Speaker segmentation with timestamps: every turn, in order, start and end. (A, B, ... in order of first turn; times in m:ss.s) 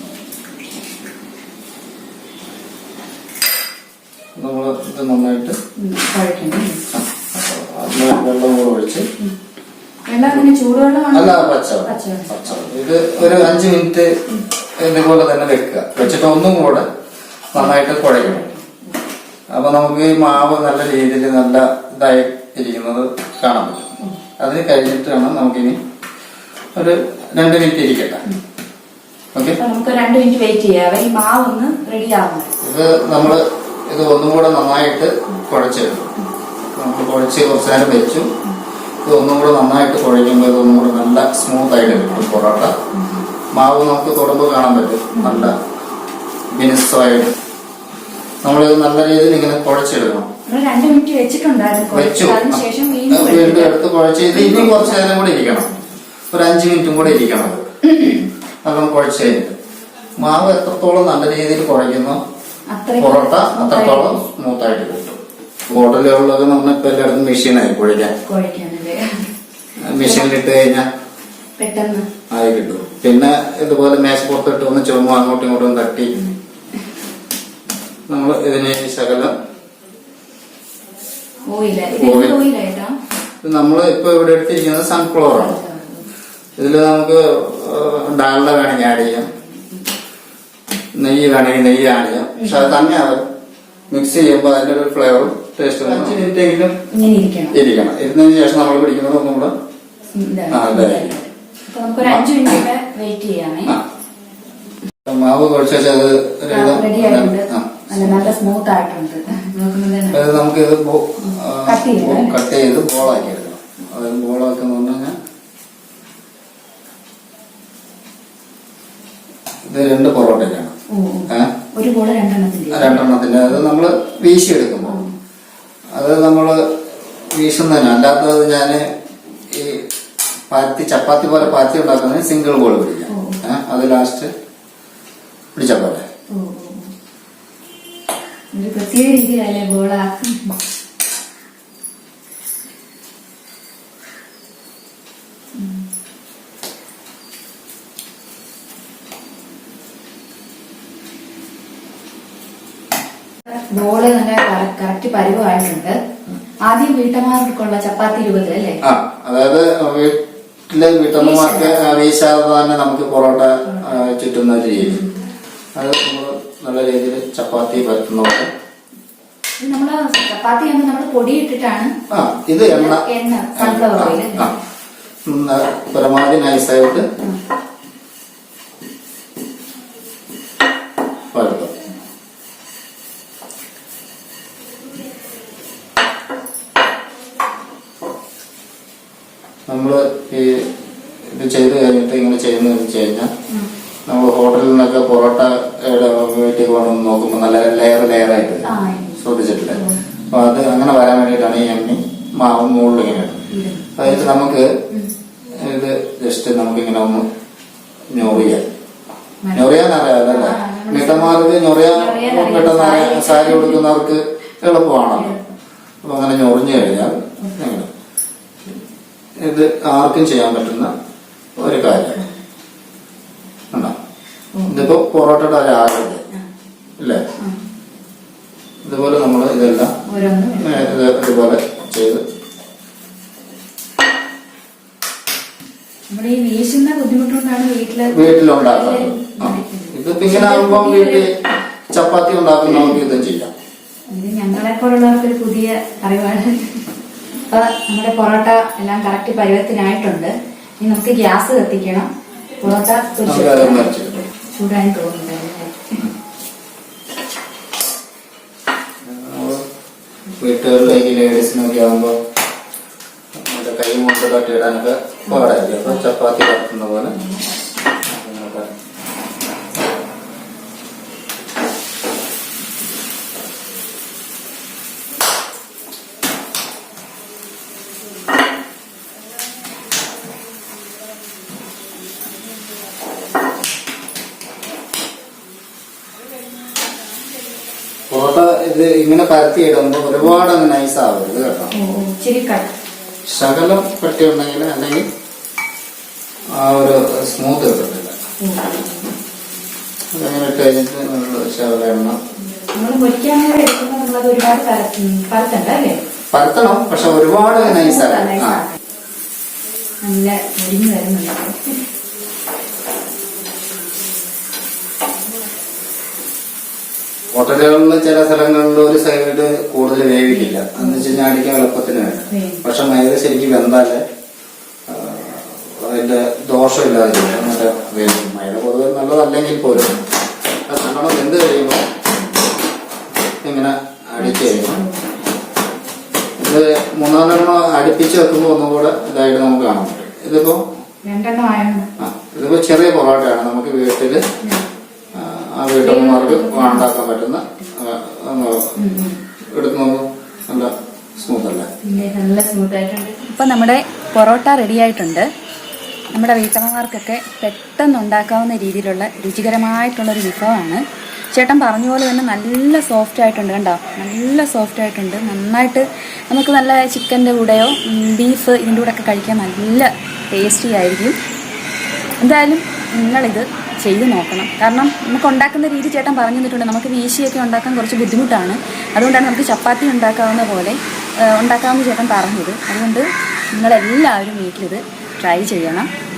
0:04.4-0:05.6 A
0:05.8-0:06.8 B
0:06.9-0:09.0 A
0:10.1-0:12.5 B
0:11.1-0:14.1 A
0:14.8-0:16.8 A
0:17.5-0:18.4 A
0:18.2-0:18.8 B
0:19.5-0:23.9 A
0:24.4-0:25.8 A
0:26.7-0:28.2 A
0:29.6-0:32.5 B
0:32.6-0:36.1 A
0:36.7-0:38.3 A
0:39.0-0:42.7 A
0:41.8-0:42.2 B
0:42.9-0:43.2 B
0:43.5-0:45.6 A
0:45.1-0:45.5 B
0:46.5-0:47.3 A
0:48.4-0:50.3 A
0:50.4-0:53.7 B
0:51.9-0:55.7 A
0:54.3-0:55.2 B
0:56.3-0:57.6 A
0:58.0-0:58.2 B
0:58.6-0:59.5 A
1:00.2-1:02.2 A
1:02.7-1:04.2 B
1:03.0-1:08.1 A
1:08.2-1:09.2 B
1:09.8-1:10.9 A
1:10.0-1:10.3 B
1:11.6-1:12.0 B
1:12.3-1:16.1 A
1:18.1-1:19.3 A
1:21.5-1:22.9 B
1:21.9-1:22.4 A
1:23.4-1:25.6 A
1:25.3-1:26.0 B
1:26.6-1:29.3 A
1:30.9-1:33.2 A
1:32.4-1:32.8 B
1:33.9-1:36.8 A
1:36.9-1:37.6 B
1:37.5-1:39.5 A
1:40.1-1:43.8 B
1:40.5-1:41.1 A
1:45.0-1:48.4 A
1:46.5-1:50.3 B
1:50.1-1:55.1 A
1:51.3-1:52.4 B
1:59.6-2:00.7 A
2:00.9-2:03.2 B
2:02.7-2:05.0 A
2:05.9-2:06.6 A
2:07.3-2:08.9 A
2:09.5-2:09.8 A
2:10.5-2:14.3 A
2:13.1-2:13.4 B
2:15.5-2:16.0 A
2:16.3-2:16.9 B
2:18.5-2:20.6 B
2:25.6-2:25.8 B
2:33.4-2:36.0 B
2:36.6-2:38.8 B
2:38.8-2:40.2 A
2:40.7-2:45.0 A
2:41.2-2:42.0 B
2:43.6-2:44.0 B
2:44.8-2:45.1 B
2:45.8-2:48.5 A
2:49.6-2:51.9 B
2:52.1-2:53.0 A
2:52.7-2:54.5 B
2:53.6-2:54.5 A
2:55.2-2:57.0 A
3:01.3-3:01.7 A
3:09.7-3:10.7 A
3:11.3-3:13.3 A
3:14.1-3:18.7 A
3:18.6-3:19.2 B
3:19.2-3:19.8 A
3:19.7-3:20.0 B
3:20.3-3:23.4 A
3:23.5-3:24.3 B
3:24.0-3:24.7 A
3:25.5-3:27.2 A
3:28.1-3:28.6 A
3:29.4-3:29.7 B
3:29.5-3:35.3 A
3:30.3-3:31.4 B
3:31.9-3:33.8 B
3:35.1-3:35.4 B
3:36.0-3:37.9 A
3:39.4-3:40.9 A
3:41.6-3:42.2 A
3:44.5-3:44.8 B
3:44.7-3:46.2 A
3:48.8-3:49.9 A
3:50.0-3:51.0 B
3:50.6-3:52.2 A
3:56.1-4:01.3 B
3:58.1-4:01.3 A
4:01.9-4:03.5 A
4:04.1-4:06.8 B
4:07.5-4:12.1 B
4:12.6-4:16.1 B
4:13.3-4:14.2 A
4:19.0-4:19.6 A
4:20.4-4:22.2 A
4:23.4-4:27.1 A
4:25.3-4:26.0 B
4:27.2-4:27.4 B
4:28.0-4:28.7 A
4:48.1-4:51.7 A
4:51.7-4:52.7 B
4:53.3-4:55.1 A
4:56.5-4:58.1 A
4:58.4-4:59.0 B
5:00.1-5:02.2 A
5:02.7-5:06.0 B
5:06.3-5:08.6 A
5:06.9-5:08.8 B
5:10.0-5:11.8 B
5:17.3-5:24.0 A
5:20.3-5:21.2 B
5:22.3-5:22.6 B
5:24.9-5:30.0 A
5:29.7-5:30.0 B
5:30.7-5:31.8 A
5:33.4-5:34.8 A
5:34.2-5:35.0 B
5:36.4-5:40.6 A
5:41.0-5:41.9 B
5:42.0-5:44.2 A
5:45.1-5:48.7 A
5:45.8-5:46.9 B
5:48.8-5:49.2 B
5:49.5-5:51.7 A
5:51.8-5:55.3 B
5:56.1-6:11.2 B
6:12.2-6:25.9 B